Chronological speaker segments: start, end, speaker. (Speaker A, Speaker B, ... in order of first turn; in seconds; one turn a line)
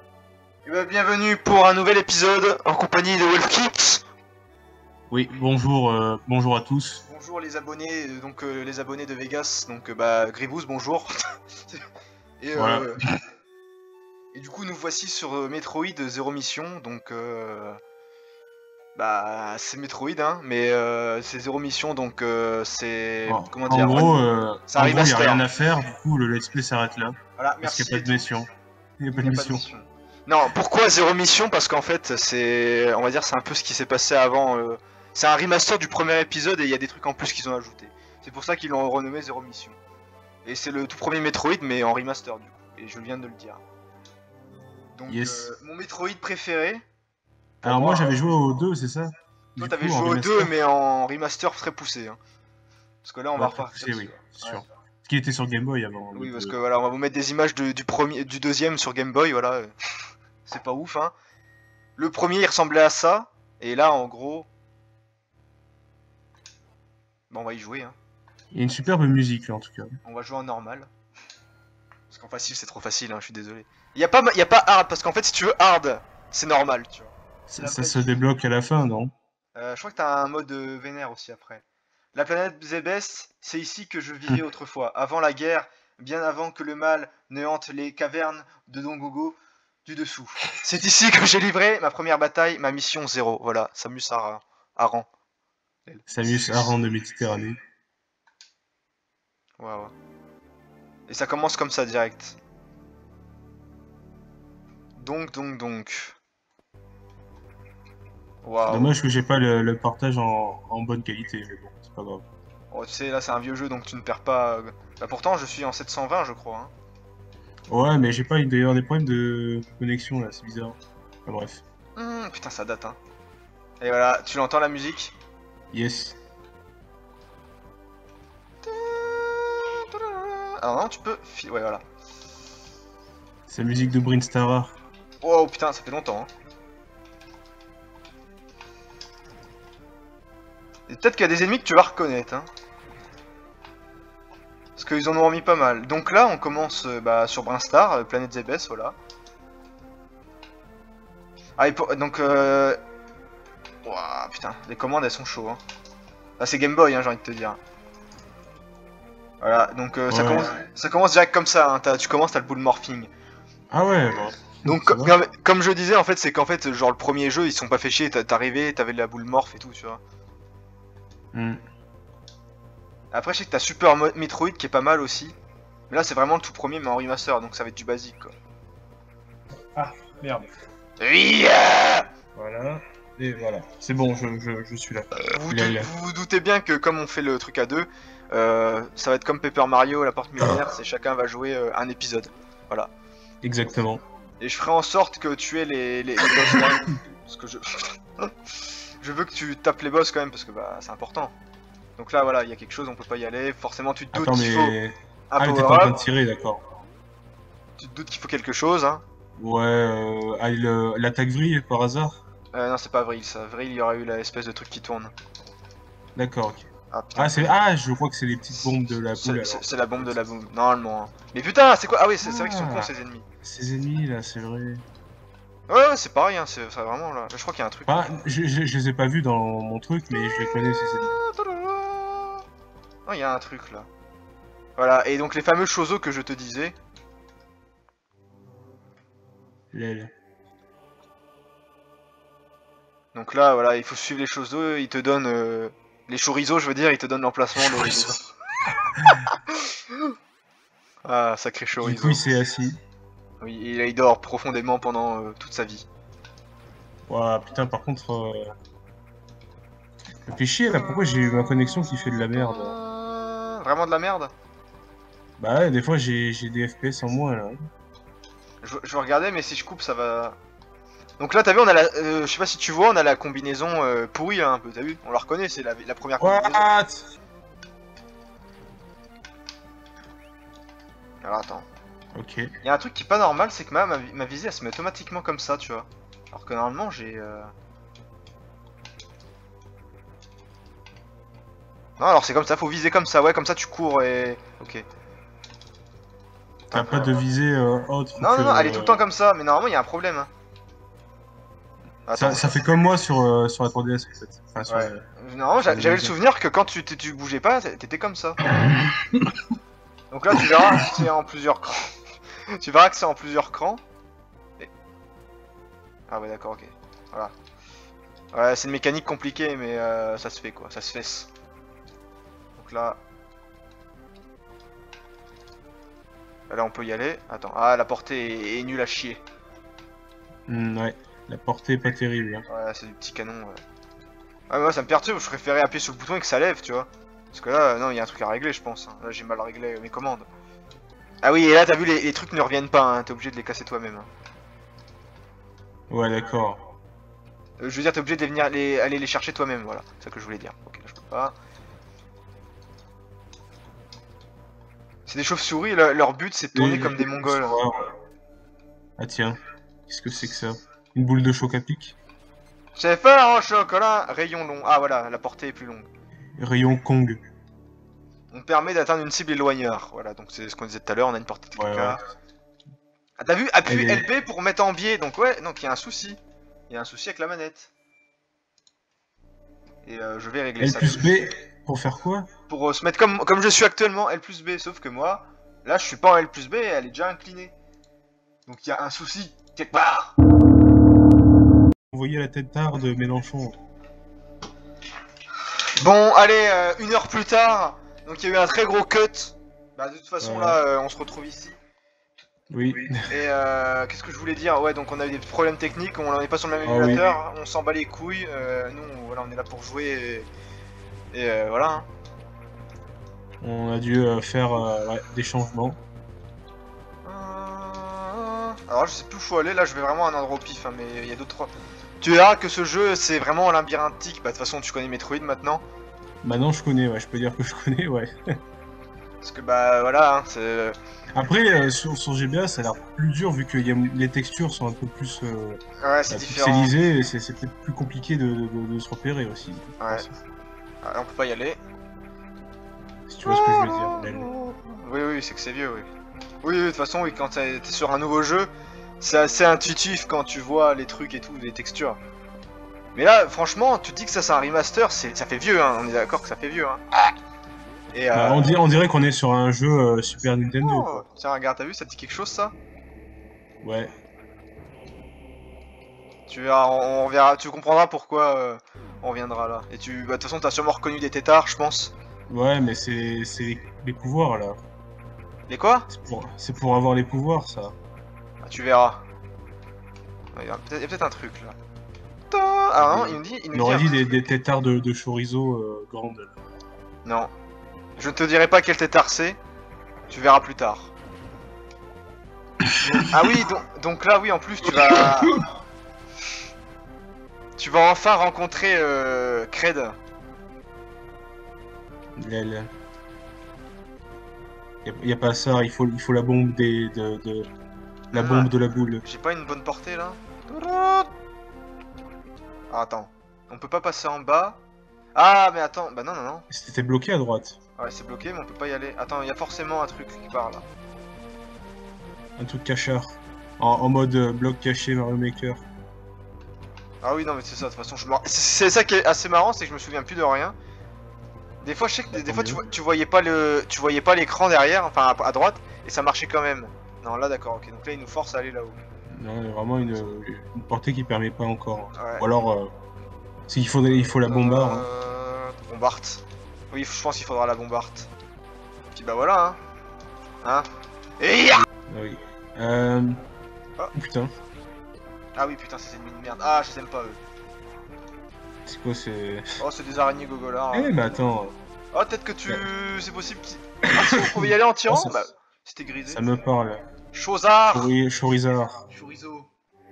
Speaker A: 0.7-4.0
Speaker B: 5.1-7.0
Speaker A: 7.1-11.9
Speaker A: 12.4-13.0
Speaker B: 12.5-12.9
Speaker A: 14.3-17.8
Speaker A: 19.0-25.5
Speaker B: 23.3-28.5
Speaker A: 27.4-28.4
Speaker B: 29.0-29.6
Speaker A: 29.1-39.8
Speaker A: 40.5-43.6
Speaker A: 45.0-46.8
Speaker B: 45.1-45.5
Speaker A: 47.6-48.7
Speaker B: 47.6-50.5
Speaker A: 49.6-52.2
Speaker A: 53.0-54.6
Speaker B: 53.4-56.6
Speaker A: 56.1-59.7
Speaker A: 60.5-61.1
Speaker A: 62.0-64.5
Speaker A: 67.3-68.0
Speaker B: 68.5-69.9
Speaker A: 70.0-70.9
Speaker A: 72.1-78.2
Speaker B: 77.5-79.1
Speaker A: 79.5-81.6
Speaker A: 82.2-95.1
Speaker A: 95.9-96.7
Speaker B: 96.1-97.6
Speaker A: 99.6-99.9
Speaker A: 101.1-102.4
Speaker A: 105.0-106.2
Speaker A: 108.4-109.0
Speaker B: 108.7-112.2
Speaker A: 112.7-116.7
Speaker B: 117.7-121.6
Speaker A: 122.0-123.0
Speaker A: 123.8-125.1
Speaker B: 125.7-126.2
Speaker A: 128.6-131.8
Speaker B: 133.5-134.8
Speaker A: 135.2-136.3
Speaker A: 140.9-142.5
Speaker A: 144.8-148.9
Speaker A: 151.6-152.8
Speaker A: 153.8-155.6
Speaker A: 156.4-157.6
Speaker A: 159.4-163.1
Speaker B: 160.1-160.6
Speaker B: 163.7-165.2
Speaker A: 164.6-170.0
Speaker B: 171.3-171.6
Speaker A: 173.1-175.3
Speaker A: 175.9-178.3
Speaker B: 179.8-180.5
Speaker A: 181.0-182.1
Speaker B: 182.3-185.9
Speaker A: 185.2-192.9
Speaker B: 193.4-194.0
Speaker A: 194.4-198.3
Speaker A: 199.0-201.3
Speaker A: 202.0-204.8
Speaker B: 204.1-206.6
Speaker A: 205.3-206.0
Speaker A: 207.8-209.0
Speaker B: 209.4-212.2
Speaker A: 212.5-215.1
Speaker B: 216.2-216.7
Speaker A: 216.9-217.6
Speaker B: 217.2-220.1
Speaker A: 218.6-223.2
Speaker B: 222.2-222.9
Speaker B: 223.4-224.8
Speaker A: 225.7-228.1
Speaker B: 227.9-231.2
Speaker A: 230.1-232.4
Speaker A: 233.1-233.9
Speaker A: 234.8-236.8
Speaker B: 239.7-240.1
Speaker A: 243.1-248.2
Speaker A: 251.1-252.2
Speaker B: 251.8-252.8
Speaker A: 253.4-255.9
Speaker B: 257.1-258.5
Speaker B: 260.2-262.8
Speaker A: 262.3-264.3
Speaker B: 265.4-267.6
Speaker A: 268.6-270.4
Speaker A: 271.2-276.7
Speaker B: 276.2-277.0
Speaker A: 281.2-281.7
Speaker B: 282.1-282.5
Speaker A: 282.6-287.5
Speaker A: 292.0-294.9
Speaker A: 296.7-297.2
Speaker B: 296.7-299.0
Speaker A: 298.2-300.3
Speaker A: 302.1-302.6
Speaker B: 302.1-305.0
Speaker A: 304.7-308.4
Speaker B: 305.7-306.1
Speaker A: 310.1-311.9
Speaker A: 312.6-313.8
Speaker A: 316.1-317.3
Speaker A: 318.3-321.3
Speaker A: 322.6-323.0
Speaker A: 326.5-329.2
Speaker B: 330.5-332.5
Speaker A: 332.5-333.6
Speaker A: 334.5-340.3
Speaker A: 341.2-344.1
Speaker B: 345.9-346.6
Speaker A: 347.6-351.4
Speaker A: 355.1-357.6
Speaker B: 356.5-357.9
Speaker B: 359.0-362.0
Speaker A: 362.8-365.9
Speaker B: 366.4-367.2
Speaker A: 368.3-372.0
Speaker B: 371.6-372.0
Speaker A: 373.2-377.7
Speaker B: 373.7-374.1
Speaker A: 379.9-381.1
Speaker B: 380.6-382.3
Speaker A: 382.5-387.6
Speaker A: 388.5-390.1
Speaker B: 391.9-393.6
Speaker A: 395.8-401.6
Speaker B: 400.2-400.6
Speaker B: 402.5-403.1
Speaker A: 403.0-410.3
Speaker B: 406.6-407.1
Speaker A: 411.1-411.9
Speaker B: 413.4-415.8
Speaker A: 417.1-425.6
Speaker B: 426.2-428.1
Speaker A: 429.2-430.8
Speaker B: 431.1-440.2
Speaker A: 435.8-436.7
Speaker A: 439.8-440.1
Speaker A: 440.8-441.6
Speaker B: 443.1-444.3
Speaker A: 443.2-445.9
Speaker A: 446.4-448.5
Speaker A: 449.0-452.0
Speaker A: 452.9-456.8
Speaker A: 457.9-458.6
Speaker B: 458.1-461.0
Speaker A: 460.6-462.5
Speaker B: 463.6-463.9
Speaker A: 466.3-471.9
Speaker B: 472.3-474.6
Speaker A: 475.5-475.9
Speaker B: 475.9-477.7
Speaker A: 478.4-479.0
Speaker A: 480.4-481.6
Speaker A: 482.3-484.1
Speaker B: 482.8-486.3
Speaker A: 487.1-487.3
Speaker A: 488.0-489.4
Speaker A: 490.1-490.9
Speaker A: 492.8-495.5
Speaker B: 493.0-493.4
Speaker A: 497.6-500.0
Speaker B: 502.2-502.7
Speaker B: 504.9-507.5
Speaker B: 508.1-509.0
Speaker A: 508.1-511.1
Speaker A: 512.7-514.6
Speaker A: 515.1-516.5
Speaker B: 516.5-517.6
Speaker A: 517.8-520.7
Speaker B: 522.4-525.6
Speaker A: 527.0-530.6
Speaker A: 531.6-538.8
Speaker B: 532.1-532.7
Speaker B: 539.1-542.7
Speaker A: 542.0-542.3
Speaker B: 543.5-544.9
Speaker A: 544.2-548.1
Speaker A: 549.0-549.6
Speaker A: 550.4-550.7
Speaker A: 551.2-551.6
Speaker B: 551.9-553.2
Speaker B: 553.9-554.3
Speaker A: 555.4-557.2
Speaker B: 558.7-559.6
Speaker A: 559.6-560.9
Speaker B: 560.7-561.5
Speaker A: 561.9-566.3
Speaker B: 564.0-565.2
Speaker B: 566.1-566.8
Speaker A: 567.1-567.9
Speaker B: 567.7-568.8
Speaker A: 568.9-569.5